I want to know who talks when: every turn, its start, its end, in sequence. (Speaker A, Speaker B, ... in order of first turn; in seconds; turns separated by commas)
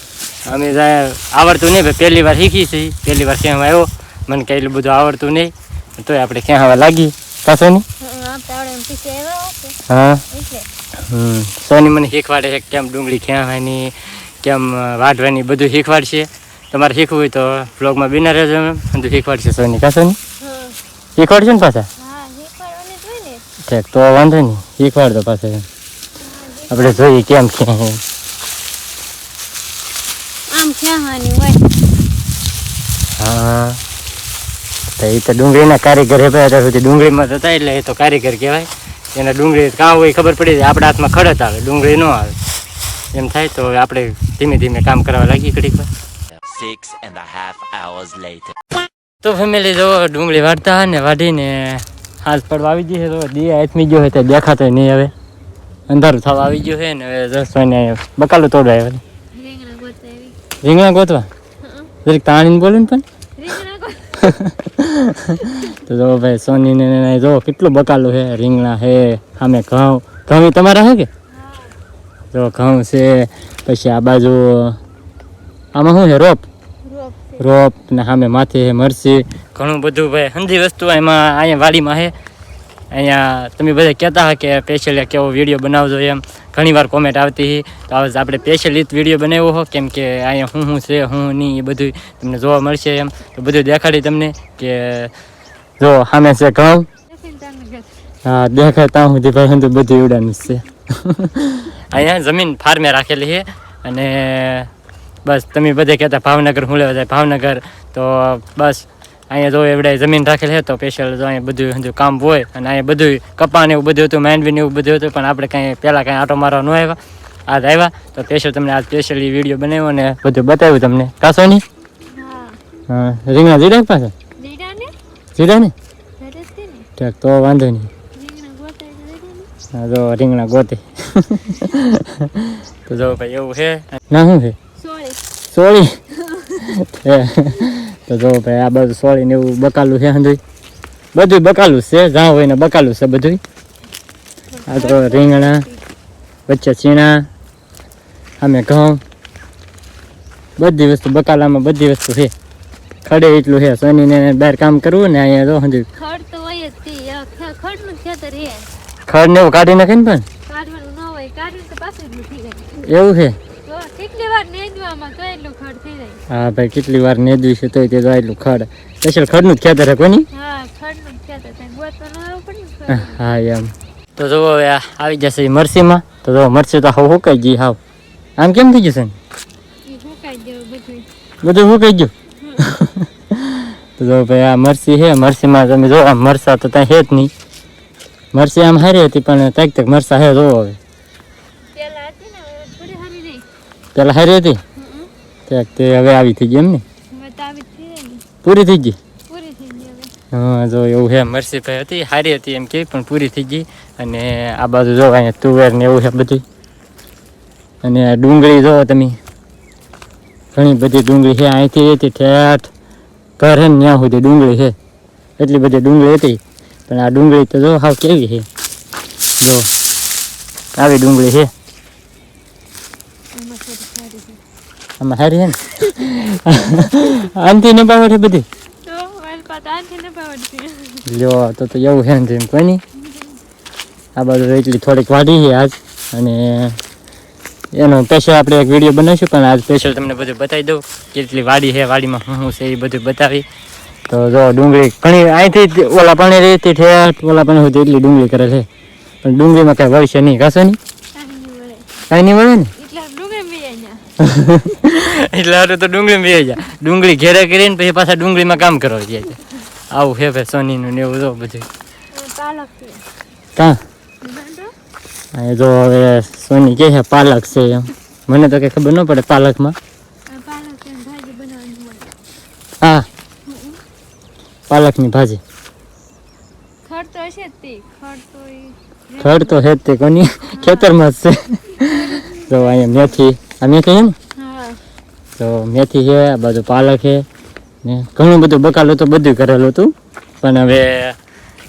Speaker A: 0.4-7.8, Speaker B: 8.0-9.8, Speaker A: 9.9-10.2, Speaker B: 10.3-10.7, Speaker A: 11.0-20.2, Speaker B: 20.4-20.8, Speaker A: 21.2-21.9, Speaker B: 22.0-23.4, Speaker A: 23.6-25.6, Speaker B: 26.2-27.1, Speaker A: 26.7-28.0, Speaker B: 30.5-31.7, Speaker A: 33.2-33.8, Speaker A: 35.0-42.4, Speaker A: 43.1-45.9, Speaker C: 46.4-48.5, Speaker A: 49.2-55.1, Speaker A: 55.9-59.0, Speaker B: 59.3-60.4, Speaker A: 60.6-61.3, Speaker B: 61.6-61.9, Speaker A: 62.0-63.0, Speaker B: 63.4-64.3, Speaker A: 64.2-71.1, Speaker B: 65.5-65.7, Speaker B: 71.3-71.8, Speaker A: 72.3-74.8, Speaker A: 75.7-76.4, Speaker B: 76.8-77.4, Speaker A: 77.4-82.1, Speaker A: 82.9-95.1, Speaker A: 95.8-96.9, Speaker B: 97.1-98.0, Speaker A: 98.2-104.7, Speaker A: 105.2-121.6, Speaker B: 122.1-122.6, Speaker A: 122.9-124.1, Speaker B: 124.4-124.9, Speaker A: 125.3-125.7, Speaker B: 126.2-126.9, Speaker A: 127.0-127.9, Speaker B: 128.1-129.5, Speaker A: 129.7-134.6, Speaker B: 134.8-135.2, Speaker A: 135.5-136.0, Speaker B: 136.1-136.6, Speaker A: 136.5-140.4, Speaker A: 141.1-143.4, Speaker B: 144.5-145.8, Speaker A: 144.7-145.6, Speaker A: 146.5-147.3, Speaker A: 148.4-149.0, Speaker A: 150.6-152.3, Speaker A: 153.0-155.9, Speaker B: 155.9-158.7, Speaker A: 159.1-160.2, Speaker B: 160.5-162.7, Speaker A: 162.8-163.4, Speaker B: 163.7-166.2, Speaker A: 166.3-170.3, Speaker B: 170.3-173.2, Speaker A: 172.9-177.8, Speaker A: 178.4-179.1, Speaker B: 179.8-181.1, Speaker A: 181.4-187.3, Speaker B: 182.4-182.6, Speaker A: 188.3-190.8, Speaker B: 191.7-193.4, Speaker A: 193.9-194.6, Speaker B: 194.8-195.1, Speaker A: 195.5-196.8, Speaker B: 197.1-198.2, Speaker A: 198.4-198.9, Speaker B: 199.3-200.1, Speaker A: 200.3-206.4, Speaker A: 207.8-209.2, Speaker A: 210.5-212.7, Speaker A: 213.4-214.7, Speaker A: 215.4-218.5, Speaker A: 219.4-219.7, Speaker A: 220.8-221.5, Speaker B: 223.3-224.4, Speaker A: 225.0-228.4, Speaker B: 228.8-231.1, Speaker A: 231.1-232.8, Speaker B: 233.0-233.4, Speaker A: 234.2-236.8, Speaker A: 237.7-243.4, Speaker A: 244.1-248.7, Speaker A: 249.2-250.8, Speaker B: 251.1-251.9, Speaker A: 252.1-252.7, Speaker B: 252.8-254.1, Speaker A: 254.2-261.7, Speaker B: 262.1-263.0, Speaker B: 264.2-264.7, Speaker A: 265.3-269.8, Speaker B: 270.3-272.2, Speaker A: 272.8-273.1, Speaker B: 273.4-273.8, Speaker A: 274.7-275.4, Speaker B: 276.8-279.6, Speaker A: 279.2-284.1, Speaker B: 280.5-280.9, Speaker B: 281.8-283.1, Speaker B: 284.3-284.8, Speaker A: 285.4-287.2, Speaker A: 287.8-291.1